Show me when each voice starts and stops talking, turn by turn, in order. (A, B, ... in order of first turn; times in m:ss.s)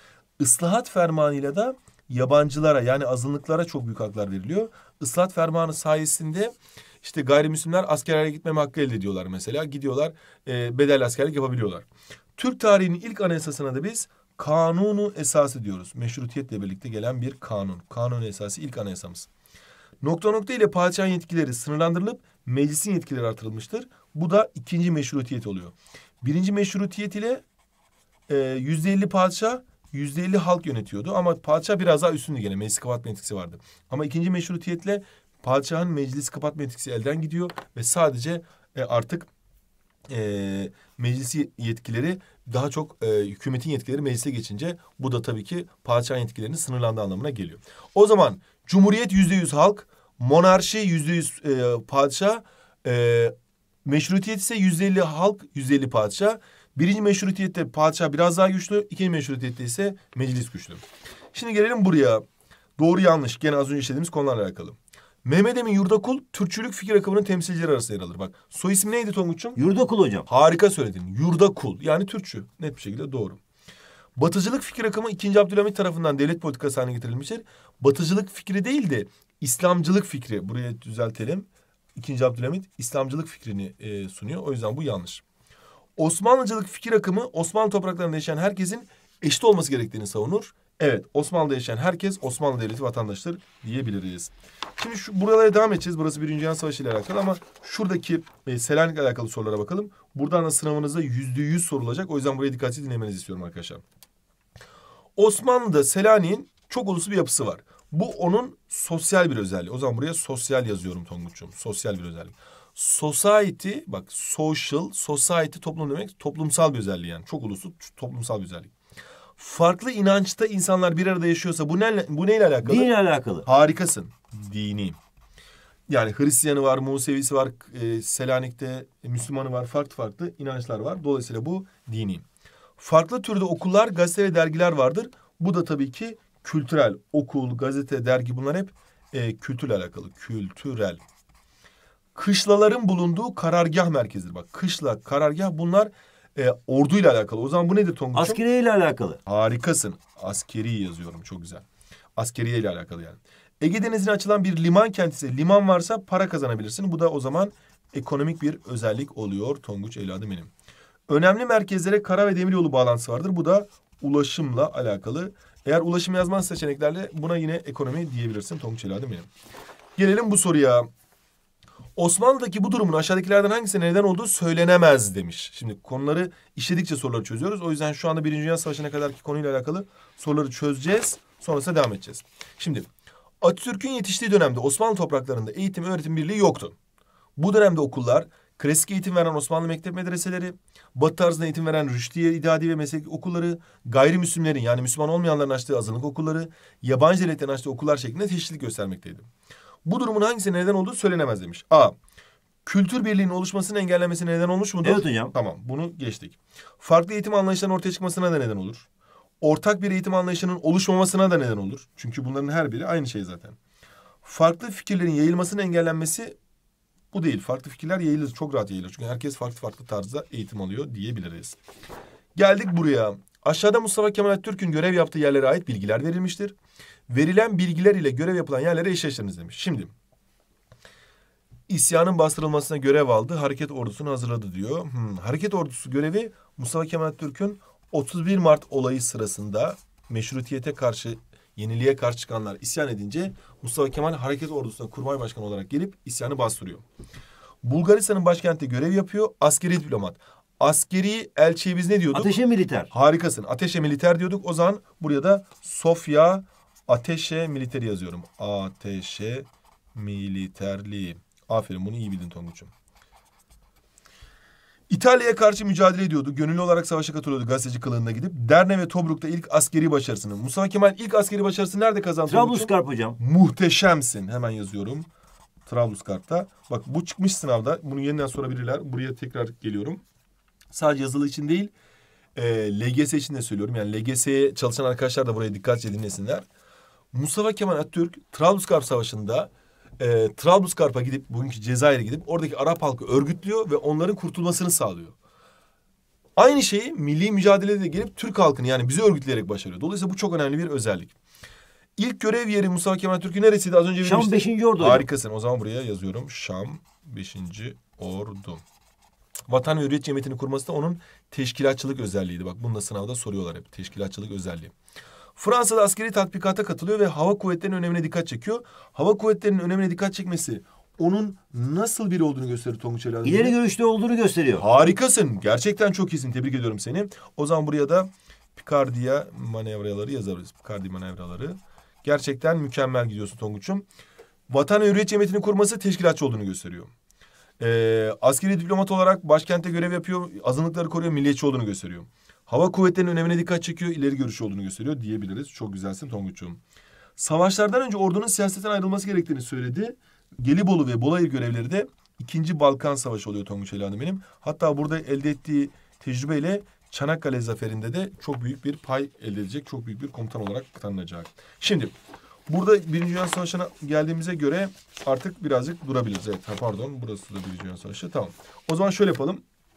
0:00.4-0:19.3 A
0:20.0-0:27.4 A
0:28.3-0:39.3 A
0:40.1-0:53.3 A
0:53.8-1:00.8 A
1:01.3-1:02.2 A
1:02.8-1:09.6 A
1:09.6-1:10.2 B
1:10.3-1:13.4 A
1:14.2-1:25.2 A
1:26.0-1:43.8 A
1:45.2-1:58.7 A
1:59.4-2:02.9 A
2:02.6-2:03.4 B
2:03.4-2:05.0 A
2:05.9-2:12.2 A
2:12.8-2:21.0 A
2:22.1-2:28.4 A
2:28.1-2:29.2 B
2:29.2-2:31.6 A
2:32.2-2:40.5 A
2:41.1-2:49.3 A
2:50.0-2:50.9 A
2:52.0-3:02.9 A
3:03.4-3:06.8 A
3:07.4-3:19.3 A
3:19.8-3:22.0 A
3:22.6-3:28.9 A
3:24.8-3:25.3 B
3:29.4-3:33.6 A
3:34.2-3:36.3 A
3:37.1-3:41.6 A
3:42.3-3:46.6 A
3:47.1-3:49.9 A
3:51.7-4:06.8 A
4:07.6-4:12.3 A
4:12.1-4:12.9 B
4:12.9-4:22.7 A
4:24.9-4:35.1 A
4:32.3-4:33.2 B
4:35.6-4:40.0 A
4:40.7-4:41.7 A
4:42.3-4:46.4 A
4:47.1-4:55.1 A
4:56.4-5:01.1 A
5:02.0-5:08.6 A
5:04.0-5:05.0 B
5:09.5-5:14.7 A
5:15.4-5:23.6 A
5:23.2-5:24.6 B
5:24.6-5:33.8 A
5:34.5-5:36.9 A
5:37.6-5:46.6 A
5:47.2-6:01.9 A
6:02.5-6:09.4 A